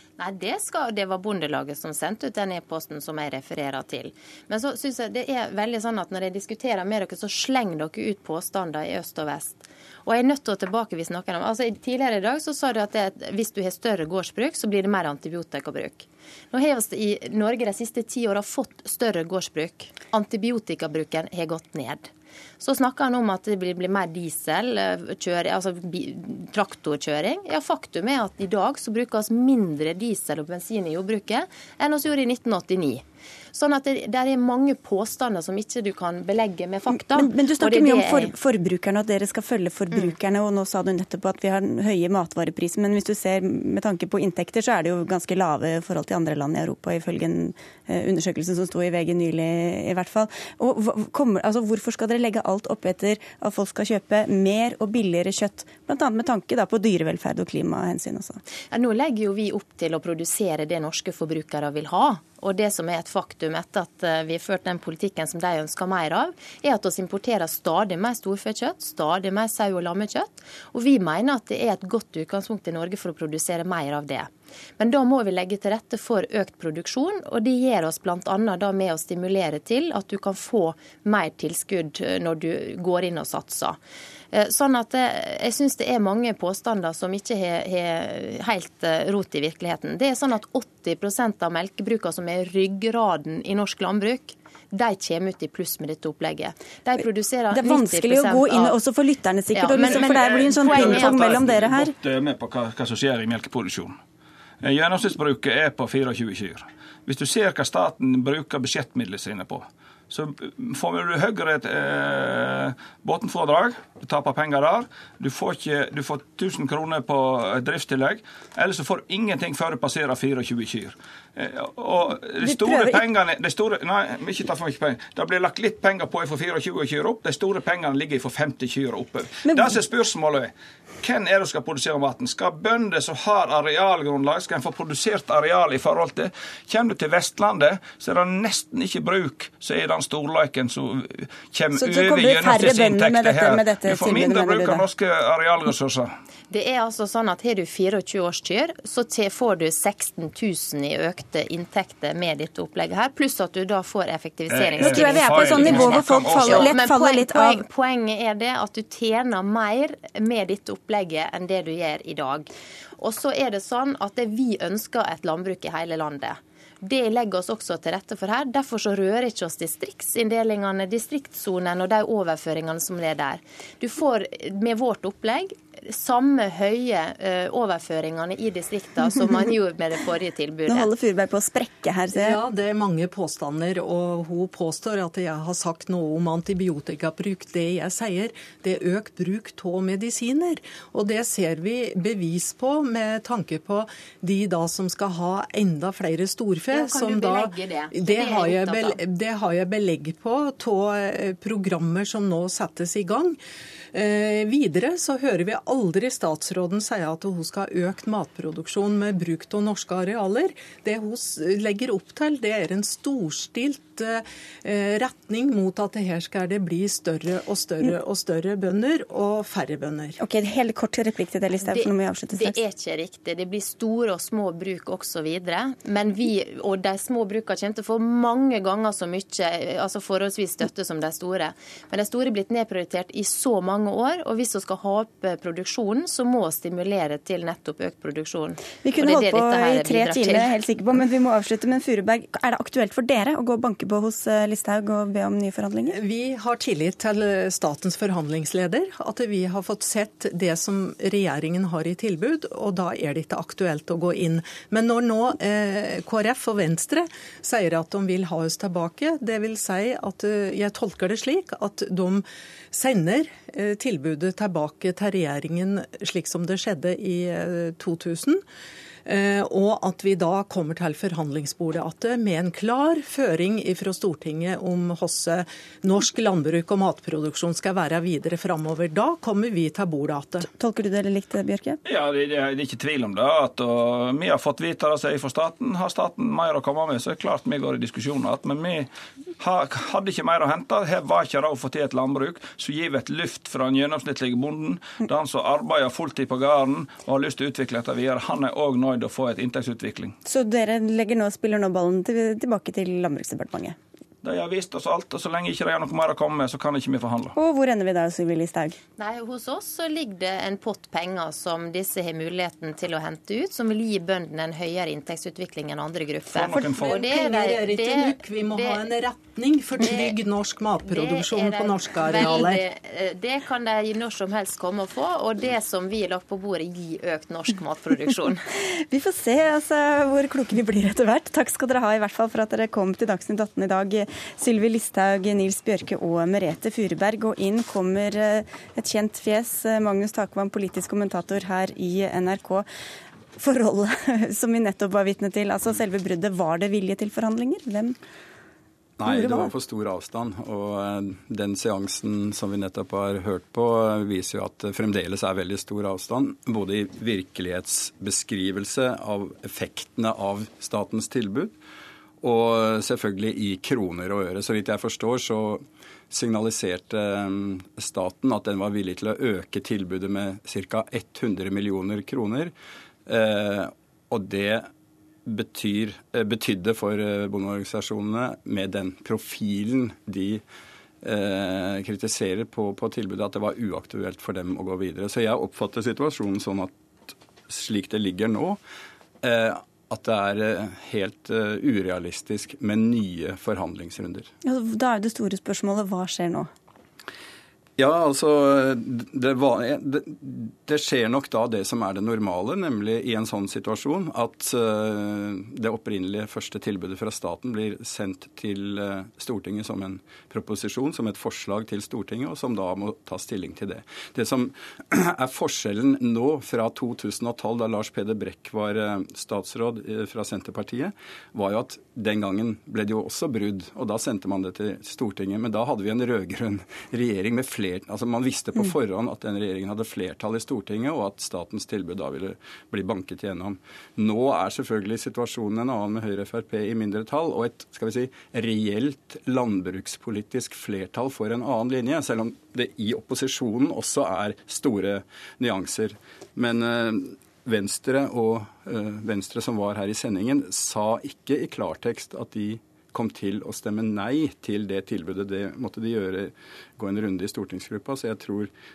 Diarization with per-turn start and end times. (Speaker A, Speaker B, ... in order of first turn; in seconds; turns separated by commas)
Speaker A: 0.2-38.3, Speaker B: 36.9-58.4, Speaker A: 58.7-83.8, Speaker A: 84.3-98.8, Speaker B: 97.5-101.9, Speaker A: 99.5-101.2, Speaker C: 99.9-104.0, Speaker C: 104.6-146.1, Speaker B: 122.4-123.0, Speaker B: 129.4-129.8, Speaker B: 141.7-144.8, Speaker A: 146.5-180.9, Speaker C: 154.5-156.7, Speaker B: 154.8-157.6, Speaker B: 180.7-182.4, Speaker D: 182.1-203.4, Speaker A: 196.7-199.0, Speaker D: 203.9-220.2, Speaker B: 220.2-222.6, Speaker A: 221.7-240.6, Speaker B: 238.8-246.0, Speaker D: 245.9-268.4, Speaker D: 269.1-280.5, Speaker B: 280.5-281.8, Speaker C: 281.9-300.2, Speaker B: 300.2-303.8, Speaker C: 304.2-307.3, Speaker B: 307.4-308.8, Speaker A: 309.0-318.9, Speaker C: 316.3-317.0, Speaker D: 316.5-322.6, Speaker A: 319.8-320.2, Speaker A: 320.9-328.5, Speaker B: 328.6-342.7, Speaker B: 343.4-348.0, Speaker E: 349.0-361.6, Speaker B: 349.0-349.5, Speaker E: 362.2-372.5, Speaker E: 373.1-374.7, Speaker E: 375.3-380.4, Speaker E: 381.0-388.6, Speaker E: 389.2-394.3, Speaker B: 394.4-396.5, Speaker E: 397.8-458.5